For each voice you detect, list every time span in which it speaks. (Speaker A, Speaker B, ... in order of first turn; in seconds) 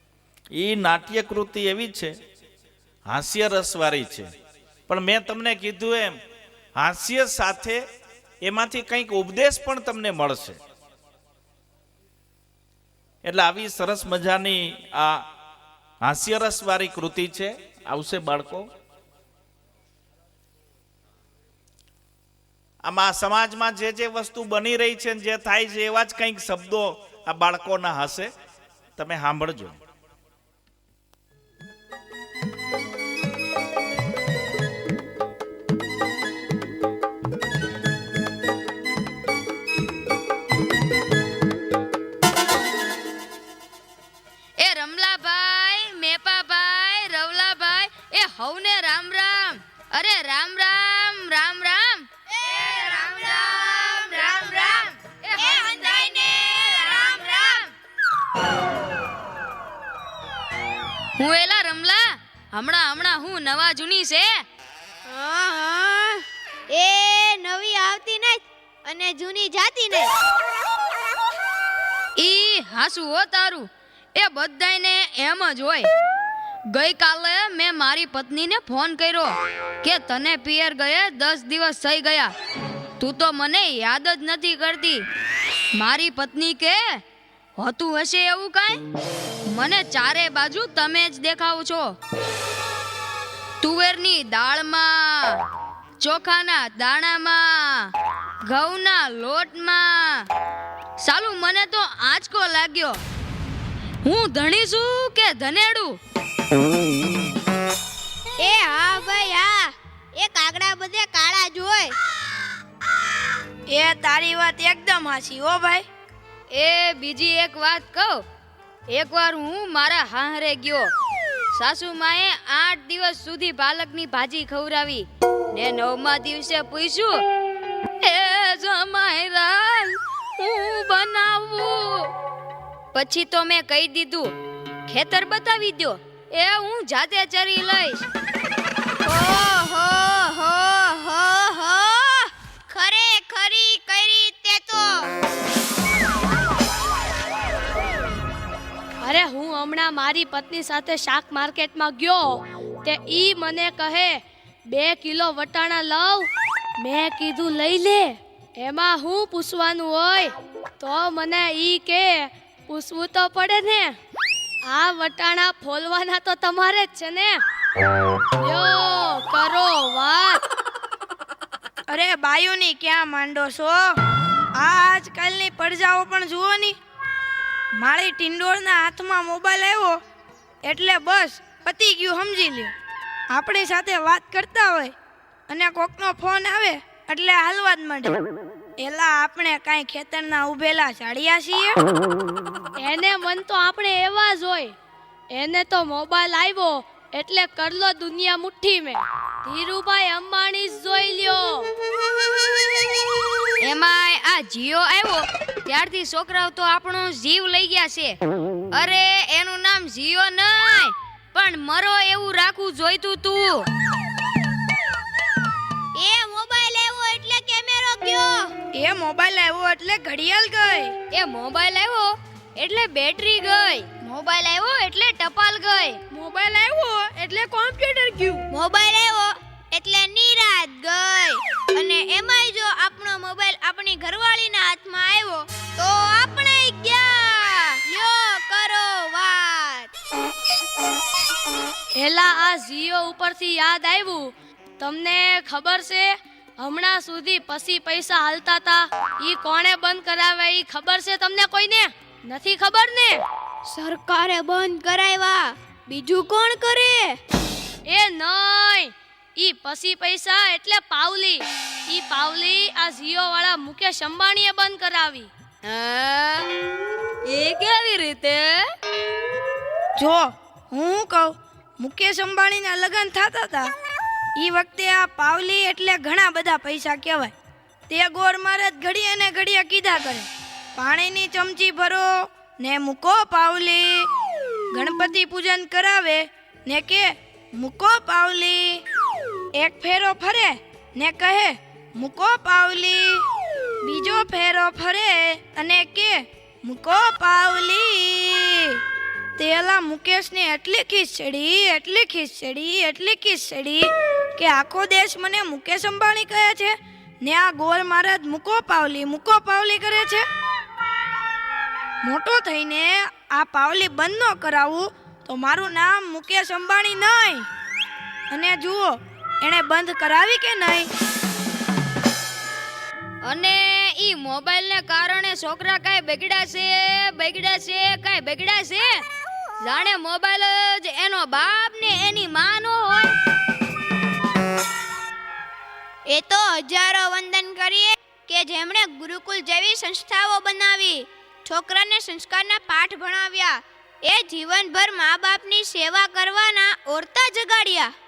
Speaker A: 0.5-2.1, 3.1-4.3, 4.9-6.2, 6.8-7.8, 8.4-10.6, 13.2-15.2, 16.0-18.7, 22.9-28.3, 29.0-29.8
Speaker B: 44.6-52.0, 53.5-55.9, 61.2-64.3, 72.2-75.9, 76.7-82.3, 83.0-85.0, 85.7-87.0, 87.6-88.8, 89.5-92.0, 93.6-95.4, 96.0-97.9, 98.4-100.2, 101.0-103.0, 104.0-106.0, 116.5-118.2, 118.9-120.9, 121.5-127.2, 128.0-132.1, 132.9-134.3, 134.9-138.1, 203.6-208.2, 208.7-213.7, 221.1-226.0, 265.6-266.5, 267.2-268.7, 323.2-329.0, 329.6-333.1
Speaker C: 52.4-57.5, 65.0-70.1, 108.4-111.9, 139.1-145.1, 216.0-218.5, 228.5-239.9, 253.7-257.1, 336.1-347.9
Speaker D: 113.7-115.9, 171.9-174.0, 174.6-176.8, 177.8-180.0, 180.6-182.7, 183.3-184.9, 185.5-188.2, 188.8-191.8, 218.7-221.0, 226.1-227.2, 269.9-273.7, 274.4-277.3, 277.9-284.1, 284.7-288.8, 289.6-293.2, 293.8-298.8, 299.4-310.2, 312.0-317.5, 318.3-320.9
Speaker E: 149.0-152.3, 152.8-154.2, 154.7-156.3, 156.8-164.0, 164.7-167.4, 168.4-170.4, 192.8-194.8, 195.3-201.7, 227.2-228.4, 242.0-253.2, 257.9-265.3